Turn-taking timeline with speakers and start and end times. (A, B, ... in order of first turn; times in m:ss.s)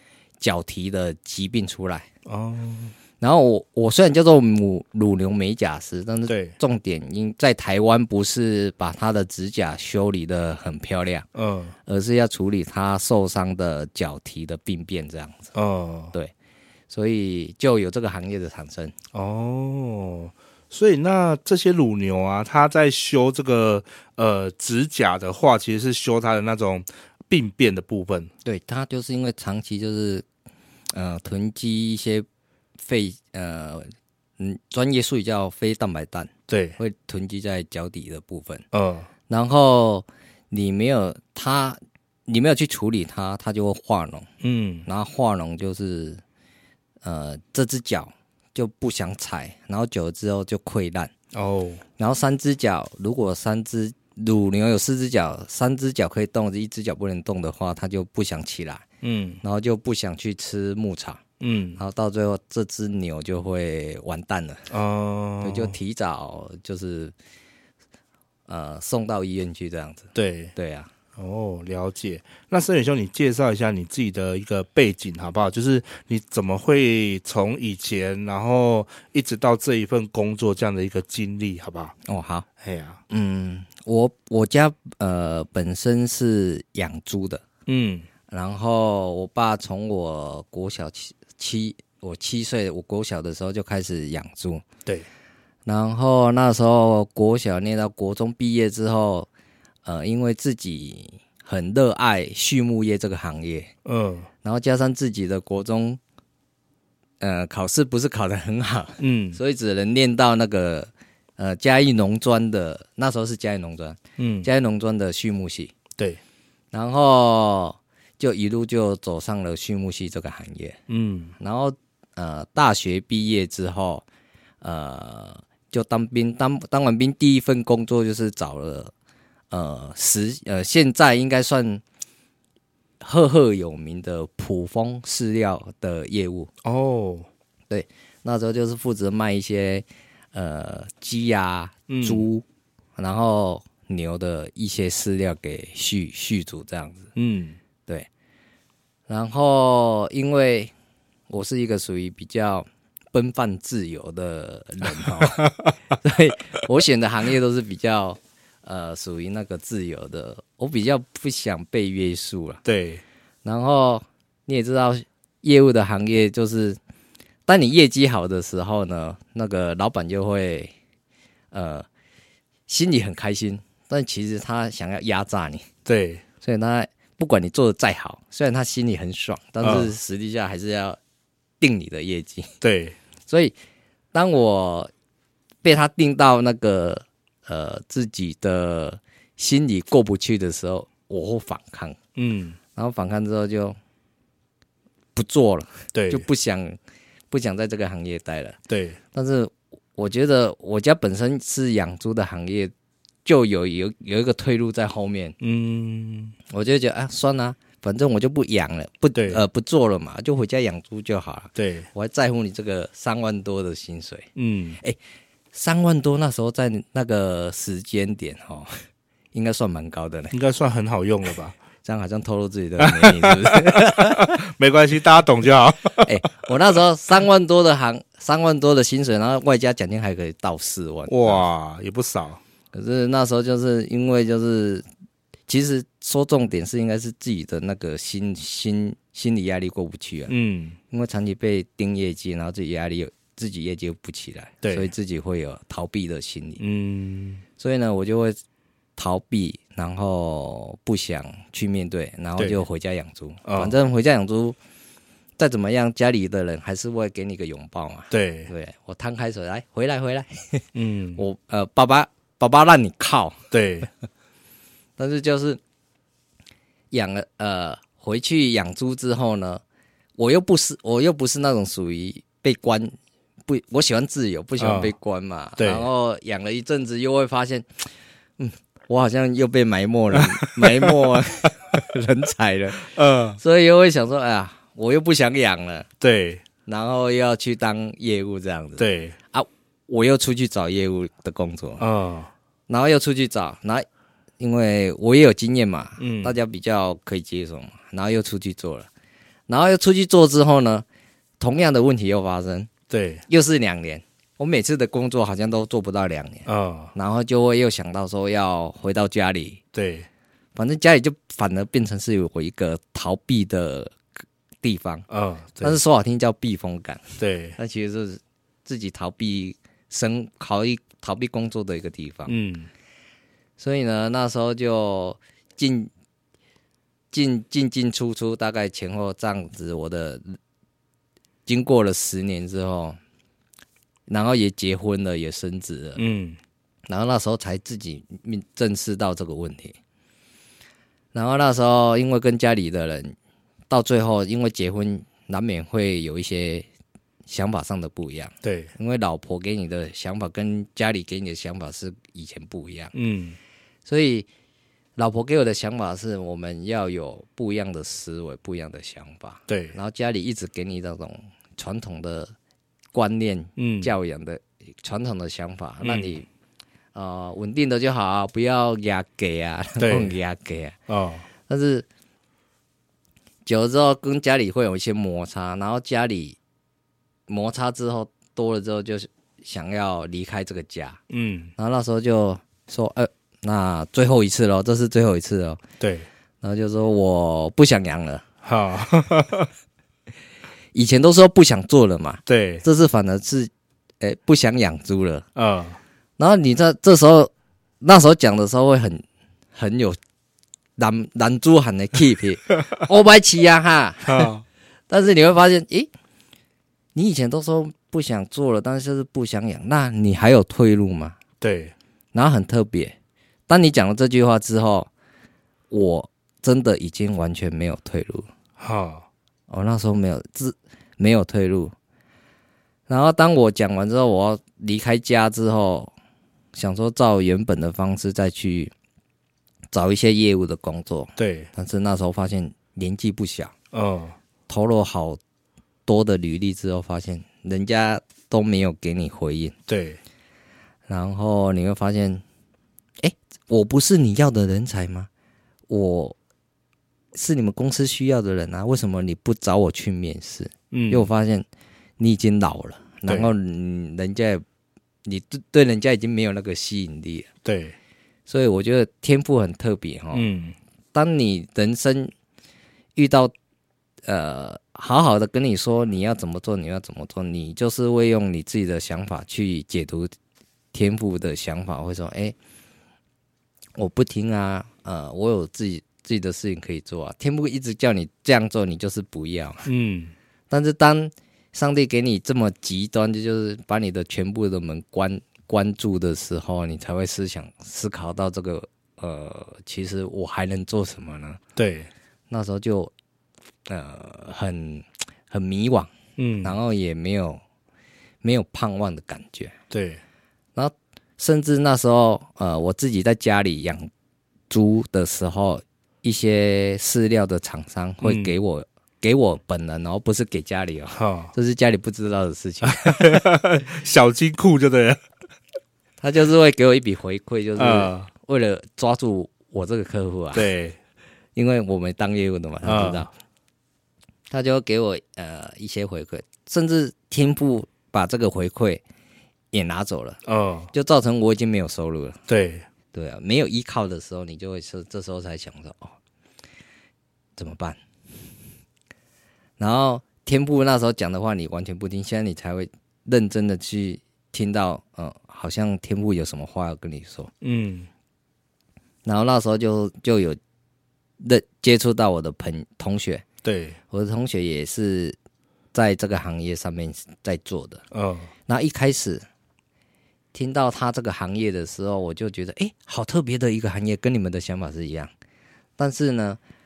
0:00.4-0:02.1 A
0:02.3-0:02.9 B
0:03.2-0:11.3 A
0:06.3-0:06.6 B
0:11.4-0:11.8 B
0:11.9-0:15.5 A
0:15.5-0:16.1 B
0:16.9-0:18.9 A
0:19.1-0:28.3 B
0:28.4-0:30.2 A
0:30.9-0:32.3 A
0:32.8-0:38.6 A
0:36.5-0:36.8 B
0:38.7-0:39.1 B
0:39.3-0:44.3 A
0:44.4-0:44.9 B
0:44.9-0:46.2 A
0:47.0-0:51.1 A
0:51.3-0:51.8 B
0:52.0-0:58.8 A
0:59.0-0:59.4 B
0:59.4-1:01.2 A
1:01.4-1:01.8 B
1:01.8-1:04.7 A
1:04.7-1:05.7 B
1:05.4-1:07.1 A
1:08.5-1:10.9 A
1:10.1-1:10.5 B
1:11.2-1:21.9 B
1:22.0-1:22.5 A
1:22.6-1:23.0 B
1:23.1-1:27.4 A
1:27.7-1:28.1 B
1:28.3-1:34.6 A
1:35.7-1:39.3 A
1:39.8-1:43.7 A
1:43.8-1:44.3 B
1:44.4-1:46.0 A
1:47.2-1:55.7 A
1:49.0-1:49.4 B
1:54.2-1:54.5 B
1:56.7-2:00.8 A
2:00.9-2:01.3 B
2:01.4-2:04.0 A
2:04.6-2:08.9 A
2:09.5-2:11.8 A
2:13.0-2:16.5 A
2:16.6-2:17.3 B
2:17.7-2:22.4 A
2:21.9-2:22.3 B
2:23.0-2:27.1 A
2:27.2-2:27.6 B
2:29.1-2:30.7 A
2:31.3-2:42.6 A
2:35.1-2:35.7 B
2:42.6-2:43.0 B
2:43.4-2:46.8 A
2:47.5-2:50.7 A
2:51.5-2:51.9 A
2:52.7-2:55.7 A
2:55.9-2:56.2 B
2:56.4-3:01.0 A
2:59.6-2:59.9 B
3:01.6-3:02.5 A
3:02.6-3:03.0 B
3:03.3-3:03.6 A
3:04.1-3:04.9 A
3:05.6-3:12.0 A
3:12.2-3:12.6 B
3:12.8-3:13.8 A
3:15.2-3:16.8 A
3:15.9-3:16.2 B
3:17.3-3:18.6 A
3:18.7-3:19.0 B
3:19.1-3:22.7 A
3:23.2-3:25.4 A
3:25.4-3:26.4 B
3:26.5-3:34.3 A
3:29.1-3:29.4 B
3:31.6-3:31.9 B
3:34.4-3:34.8 B
3:35.5-3:38.8 A
3:39.3-3:40.4 A
3:40.3-3:41.6 B
3:41.8-3:44.4 A
3:42.8-3:46.3 B
3:46.0-3:51.4 A
3:51.1-3:52.4 B
3:52.7-3:54.8 A
3:55.5-4:00.3 A
4:00.3-4:00.8 B
4:00.9-4:06.6 A
4:04.6-4:04.9 B
4:06.6-4:07.4 B
4:07.6-4:08.4 A
4:09.0-4:14.6 A
4:12.4-4:12.6 B
4:13.4-4:13.7 B
4:15.4-4:20.6 A
4:18.1-4:18.5 B
4:20.8-4:21.2 B
4:21.2-4:23.4 A
4:23.5-4:23.9 B
4:25.0-4:25.6 A
4:26.9-4:29.6 A
4:30.2-4:32.9 A
4:33.5-4:37.9 A
4:34.6-4:34.9 B
4:35.6-4:35.9 B
4:38.4-4:45.9 A
4:40.1-4:41.2 B
4:42.8-4:43.4 B
4:46.0-4:46.4 B
4:46.7-4:51.8 A
4:48.8-4:49.2 B
4:51.8-4:52.3 B
4:52.7-4:53.9 A
4:54.4-4:58.9 A
4:56.0-4:56.4 B
4:59.5-5:00.8 A
5:01.4-5:02.7 A
5:02.9-5:03.2 B
5:03.3-5:09.6 A
5:06.5-5:06.9 B
5:09.7-5:10.1 B
5:10.6-5:14.0 A
5:14.6-5:15.1 A
5:15.1-5:15.8 B
5:15.6-5:22.4 A
5:17.2-5:17.6 B
5:22.3-5:22.7 B
5:23.6-5:25.9 A
5:27.1-5:30.4 A
5:31.5-5:33.0 A
5:34.1-5:36.0 A
5:36.0-5:36.4 B
5:36.9-5:39.8 A
5:41.1-5:43.2 A
5:43.7-5:46.7 A
5:47.3-5:52.9 A
5:48.4-5:48.7 B
5:52.9-5:53.4 B
5:53.9-5:54.3 A
5:55.0-6:02.3 A
5:59.5-5:59.8 B
6:02.9-6:06.3 A
6:03.6-6:03.9 B
6:05.8-6:06.1 B
6:06.9-6:10.8 A
6:09.8-6:10.2 B
6:10.9-6:11.3 B
6:11.5-6:11.9 A
6:13.5-6:16.4 A
6:17.3-6:21.0 A
6:21.1-6:21.5 B
6:21.6-6:25.6 A
6:25.8-6:26.1 B
6:26.4-6:28.2 A
6:28.4-6:29.5 B
6:30.7-6:35.2 A
6:32.3-6:32.6 B
6:35.4-6:35.8 B
6:36.2-6:39.0 A
6:39.6-6:40.0 A
6:40.8-6:44.3 A
6:44.0-6:44.4 B
6:44.9-6:45.9 A
6:47.0-6:51.2 A
6:51.4-6:51.7 B
6:52.1-6:53.0 A
6:53.5-6:54.9 A
6:55.7-6:58.3 A
6:58.6-6:59.1 B
6:59.5-7:01.7 A
7:02.9-7:05.9 A
7:06.6-7:08.7 A
7:09.7-7:13.5 A
7:11.2-7:11.5 B
7:13.7-7:14.2 B
7:14.5-7:15.2 A
7:15.9-7:19.5 A
7:19.7-7:20.0 B
7:20.9-7:22.2 A
7:23.0-7:25.1 A
7:25.7-7:26.2 A
7:27.1-7:31.5 A
7:30.7-7:31.1 B
7:32.0-7:34.4 A
7:35.0-7:37.3 A
7:37.4-7:37.8 B
7:38.3-7:40.3 A
7:40.1-7:40.6 B
7:40.9-7:42.1 A
7:43.0-7:43.3 A
7:44.0-7:50.1 A
7:50.7-7:52.4 A
7:53.8-7:59.7 A
7:59.6-8:00.1 B
8:00.5-8:11.4 A
8:11.6-8:11.9 B
8:12.3-8:12.9 A
8:13.7-8:15.9 A
8:16.2-8:16.6 B
8:16.4-8:17.4 A
8:18.2-8:19.6 A
8:19.7-8:20.0 B
8:20.6-8:23.9 A
8:24.5-8:33.2 A
8:28.0-8:28.3 B
8:31.0-8:31.3 B
8:32.6-8:35.0 B
8:36.0-8:40.5 A
8:37.6-8:38.1 B
8:40.3-8:40.8 B
8:41.4-8:43.1 A
8:42.6-8:43.1 B
8:44.3-8:48.8 A
8:49.5-8:50.2 A
8:50.2-8:50.7 B
8:50.7-8:52.2 A
8:52.3-8:52.7 B
8:52.9-8:56.0 A
8:57.4-8:57.8 A
8:59.6-9:07.3 A
9:07.4-9:07.9 B
9:09.0-9:10.4 A
9:11.2-9:13.2 A
9:13.4-9:13.8 B
9:13.9-9:15.2 A
9:15.7-9:17.8 A
9:17.9-9:18.3 B
9:18.5-9:19.2 A
9:20.3-9:25.1 A
9:25.8-9:26.4 A